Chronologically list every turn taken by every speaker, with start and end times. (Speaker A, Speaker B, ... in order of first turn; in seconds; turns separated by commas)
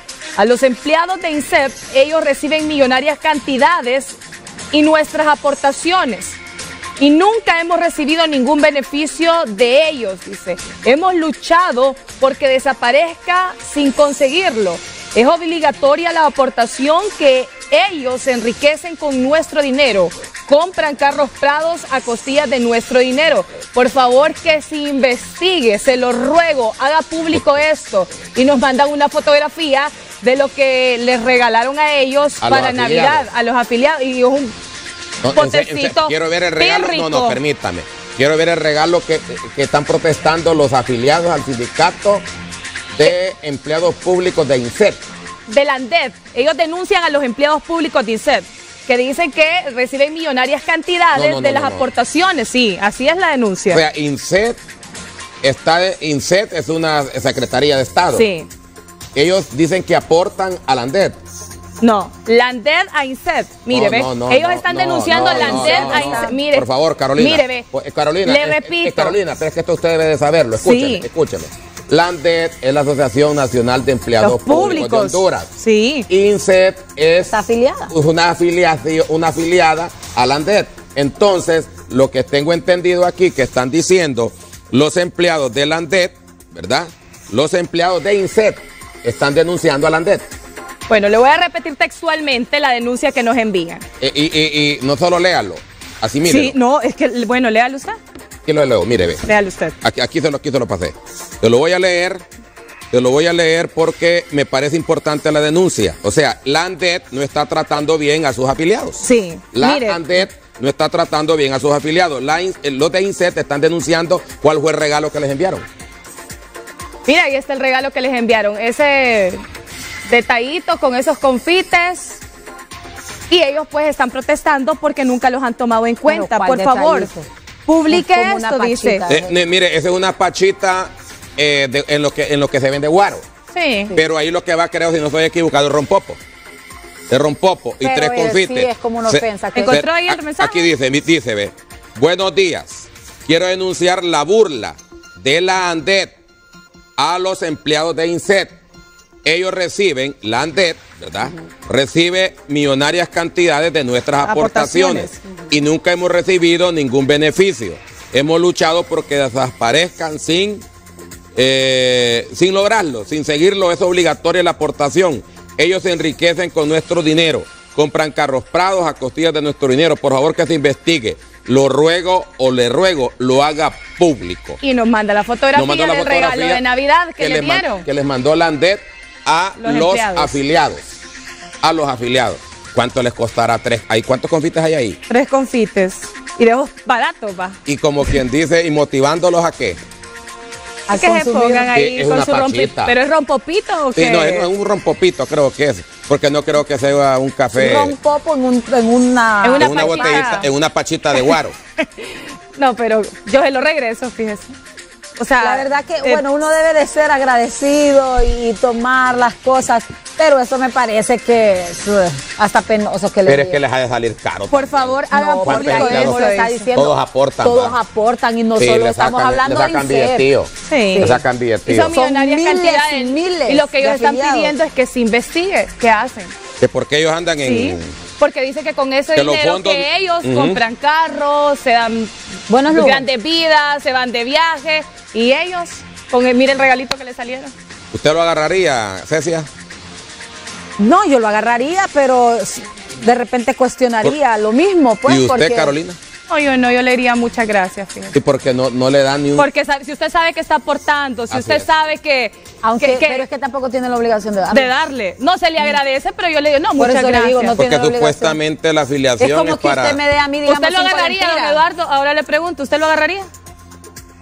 Speaker A: 0.4-4.2, Speaker A: 4.7-6.4, Speaker A: 7.0-34.5, Speaker B: 32.4-33.3, Speaker B: 35.2-42.3, Speaker A: 35.3-37.4, Speaker B: 43.0-45.0, Speaker A: 45.5-53.8, Speaker B: 51.1-51.9, Speaker B: 53.7-54.6, Speaker B: 55.4-58.3, Speaker A: 58.1-58.5, Speaker B: 59.1-61.2, Speaker A: 61.8-67.7, Speaker B: 63.7-75.5, Speaker C: 65.1-66.4, Speaker A: 68.2-69.2, Speaker A: 70.6-71.1, Speaker A: 74.2-76.1, Speaker B: 76.1-77.4, Speaker C: 77.3-77.9, Speaker B: 77.9-90.3, Speaker A: 90.9-93.8, Speaker B: 94.0-96.6, Speaker A: 96.3-98.0, Speaker B: 98.5-99.3, Speaker A: 99.2-99.8, Speaker B: 99.8-102.2, Speaker B: 102.9-115.7, Speaker A: 109.0-110.2, Speaker A: 117.1-119.4, Speaker A: 120.1-122.2, Speaker A: 123.3-127.1, Speaker C: 126.1-127.3, Speaker A: 127.7-129.1, Speaker C: 127.9-129.4, Speaker B: 129.1-133.2, Speaker A: 133.5-133.9, Speaker B: 133.9-136.2, Speaker B: 137.1-146.2, Speaker C: 137.8-139.8, Speaker A: 139.5-140.7, Speaker B: 147.0-148.6, Speaker B: 149.2-160.6, Speaker A: 154.2-155.2, Speaker B: 161.4-174.6, Speaker A: 174.6-177.8, Speaker B: 175.5-176.6, Speaker B: 177.2-180.9, Speaker A: 179.6-180.4, Speaker B: 181.6-185.0, Speaker A: 185.1-187.6, Speaker B: 187.7-189.8, Speaker C: 190.9-191.7, Speaker A: 190.9-194.5, Speaker B: 191.7-192.9, Speaker B: 193.9-197.9, Speaker C: 197.6-200.4, Speaker A: 199.4-200.5, Speaker B: 199.6-201.6, Speaker A: 201.1-204.5, Speaker A: 205.2-206.2, Speaker C: 205.4-213.6, Speaker B: 213.3-217.8, Speaker A: 214.5-216.7, Speaker C: 214.8-220.3, Speaker B: 218.6-221.9, Speaker A: 220.7-221.1, Speaker C: 220.9-221.2, Speaker A: 221.7-226.3, Speaker C: 221.9-224.5, Speaker B: 226.6-227.9, Speaker A: 227.4-232.1, Speaker B: 229.2-230.6, Speaker C: 232.5-233.1, Speaker A: 232.7-237.5, Speaker B: 237.9-239.5, Speaker C: 240.8-245.7, Speaker B: 245.1-246.0, Speaker A: 246.3-248.2, Speaker B: 248.1-249.5, Speaker A: 249.4-253.2, Speaker B: 251.3-251.7, Speaker C: 252.6-254.7, Speaker A: 254.5-257.6, Speaker C: 256.8-258.4, Speaker B: 257.6-260.0, Speaker C: 259.2-261.6, Speaker A: 260.5-263.3